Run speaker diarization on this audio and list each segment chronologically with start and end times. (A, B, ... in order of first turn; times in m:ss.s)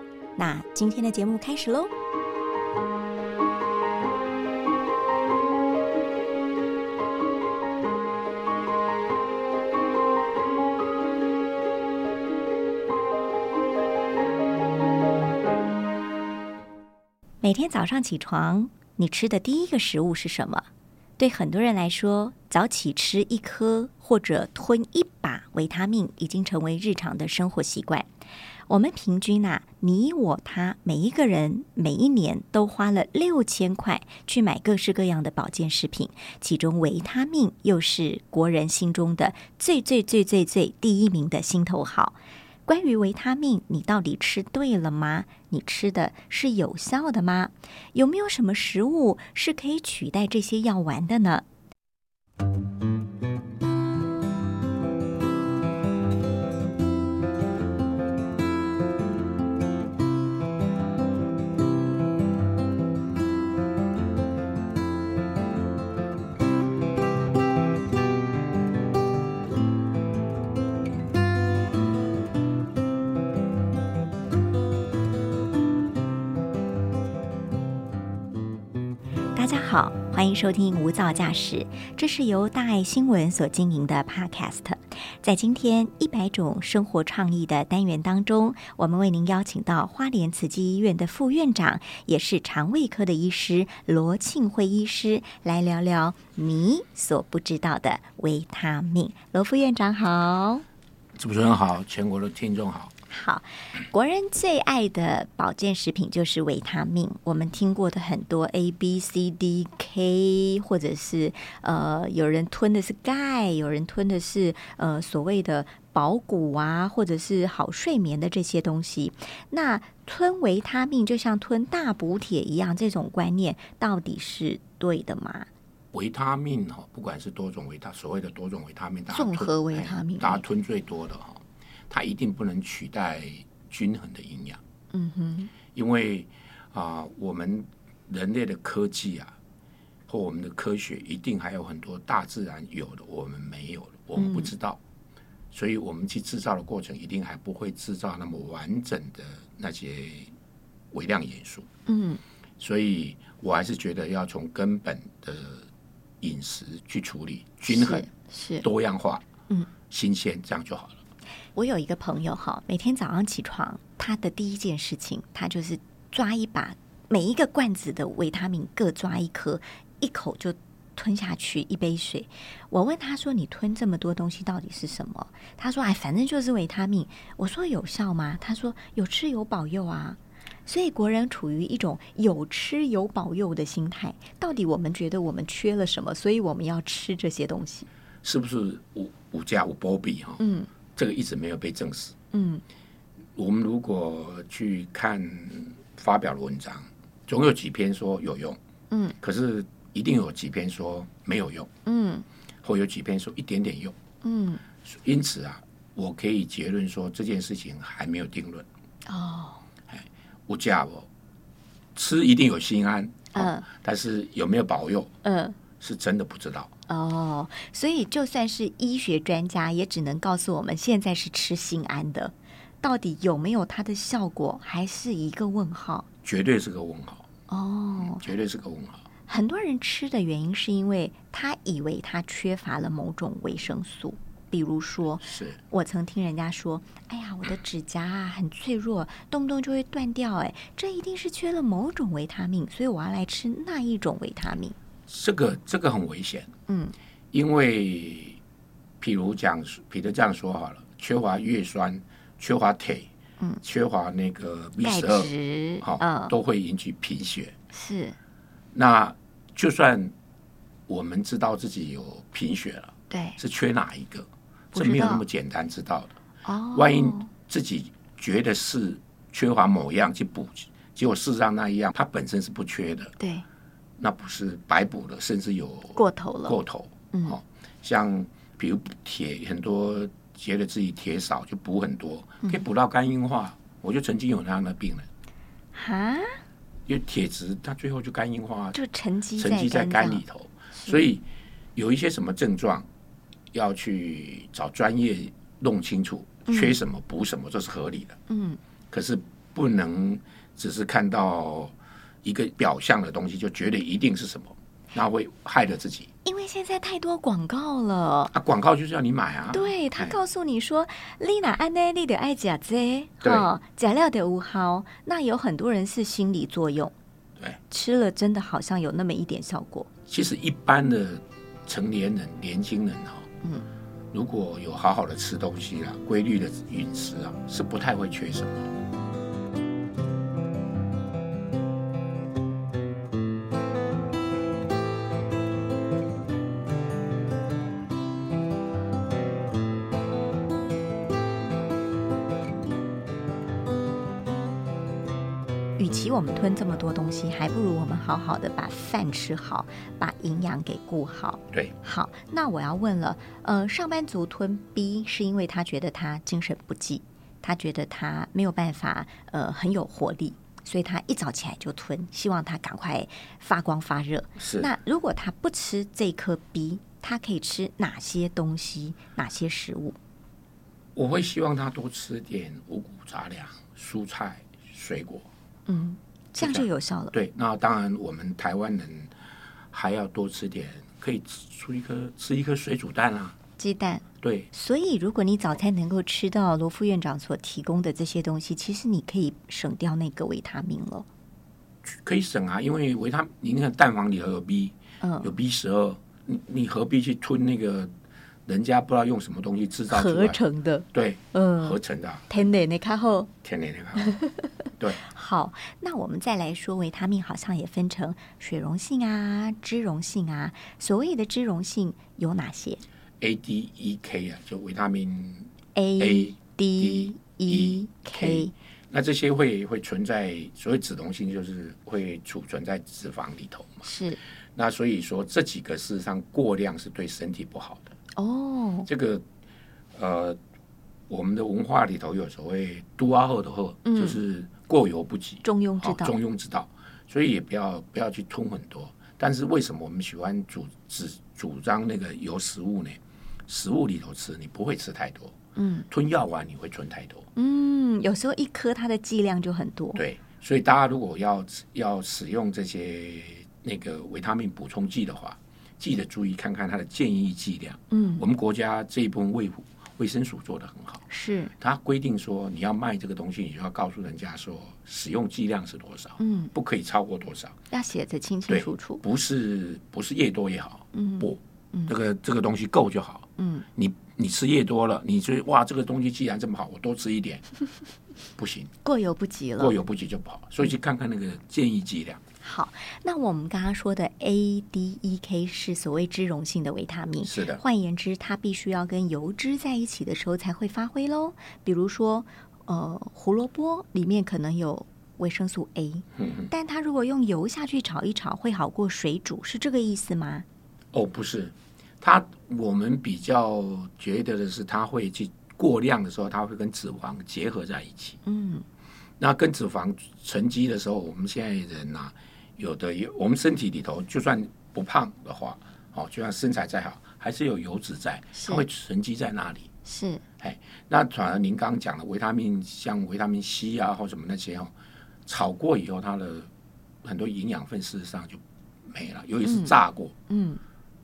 0:00.4-0:01.9 A
0:17.4-0:20.7 A
0:21.2-0:28.1 A
0:28.7-0:51.4 A
1:19.3-1:40.6 A
1:41.2-1:42.9 B
1:43.1-2:05.5 A
2:05.9-2:14.6 B
2:09.1-2:10.4 A
2:14.9-2:15.5 A
2:15.7-2:19.3 B
2:20.1-2:24.8 B
2:24.2-2:24.5 A
2:25.5-2:30.3 B
2:30.9-2:31.7 B
2:31.9-2:32.2 A
2:32.6-2:35.6 B
2:36.2-2:38.1 B
2:37.7-2:38.6 A
2:38.6-2:39.2 B
2:39.9-2:41.0 B
2:41.5-3:07.9 A
3:08.2-3:10.4 B
3:10.4-3:10.7 A
3:11.0-3:12.1 B
3:12.3-3:12.6 A
3:13.4-3:18.6 B
3:18.9-3:19.2 A
3:19.2-3:21.7 B
3:21.8-3:22.2 A
3:22.6-3:24.0 B
3:24.2-3:24.6 A
3:24.8-3:28.6 B
3:29.0-3:29.6 A
3:29.9-3:31.1 B
3:31.9-3:35.1 B
3:33.3-3:33.7 A
3:35.2-3:35.6 A
3:35.8-3:36.7 B
3:36.9-3:46.0 A
3:46.2-3:47.2 B
3:47.5-3:48.2 A
3:48.0-3:49.1 B
3:49.3-4:04.8 A
3:55.2-3:55.6 B
4:05.1-4:06.5 B
4:06.7-4:06.9 A
4:07.3-4:08.4 B
4:09.0-4:13.1 B
4:13.6-4:17.5 B
4:14.8-4:16.3 A
4:17.7-4:18.2 A
4:18.7-4:20.1 B
4:20.9-4:26.1 B
4:23.1-4:23.4 A
4:24.7-4:25.2 A
4:26.4-4:27.3 A
4:26.7-4:33.1 B
4:33.2-4:33.4 A
4:34.0-4:45.0 B
4:35.9-4:36.6 A
4:37.1-4:37.4 A
4:45.7-4:46.4 A
4:46.8-4:48.8 B
4:48.7-4:50.2 A
4:49.4-4:51.2 B
4:50.7-4:51.0 A
4:51.7-4:52.8 B
4:53.5-4:58.2 B
4:56.5-4:56.8 A
4:58.3-4:58.6 A
4:58.9-5:06.1 B
5:06.2-5:08.3 A
5:08.3-5:10.2 B
5:09.5-5:16.9 A
5:13.2-5:13.5 B
5:17.7-5:19.9 A
5:20.1-5:23.3 B
5:24.1-5:28.7 B
5:45.8-6:10.0 A
6:04.4-6:04.7 B
6:10.9-6:15.3 B
6:15.7-6:17.1 A
6:16.4-6:19.1 B
6:19.7-6:23.3 B
6:23.6-6:31.1 A
6:24.2-6:24.5 B
6:31.8-6:37.9 B
6:35.0-6:35.3 A
6:38.4-6:40.4 B
6:39.9-6:41.8 A
6:40.9-6:42.3 B
6:42.3-6:43.3 A
6:43.4-6:44.2 B
6:44.0-6:52.8 A
6:53.2-7:03.8 B
6:55.7-6:58.5 A
7:03.8-7:04.2 A
7:04.5-7:07.9 B
7:08.2-7:08.9 A
7:08.9-7:09.2 B
7:09.9-7:10.4 B
7:11.1-7:25.3 B
7:13.8-7:14.2 A
7:15.4-7:16.2 A
7:25.6-7:25.9 A
7:25.9-7:27.3 B
7:27.3-7:30.0 A
7:29.9-7:41.0 B
7:37.9-7:38.2 A
7:41.1-7:41.5 A
7:41.6-7:47.6 B
7:46.2-7:46.5 A
7:47.7-7:49.0 A
7:48.5-7:57.4 B
7:50.9-7:51.9 A
7:53.4-7:53.6 A
7:58.4-7:58.7 B
7:58.8-7:59.7 A
7:59.6-8:02.2 B
8:02.4-8:20.4 A
8:07.2-8:07.6 B
8:16.2-8:16.5 B
8:20.9-8:28.2 B
8:28.2-8:28.6 A
8:29.2-8:39.7 B
8:38.3-8:38.6 A
8:39.8-8:40.2 A
8:40.4-8:44.7 B
8:45.2-8:46.5 B
8:47.0-8:50.1 B
8:49.4-8:49.8 A
8:50.3-8:50.6 A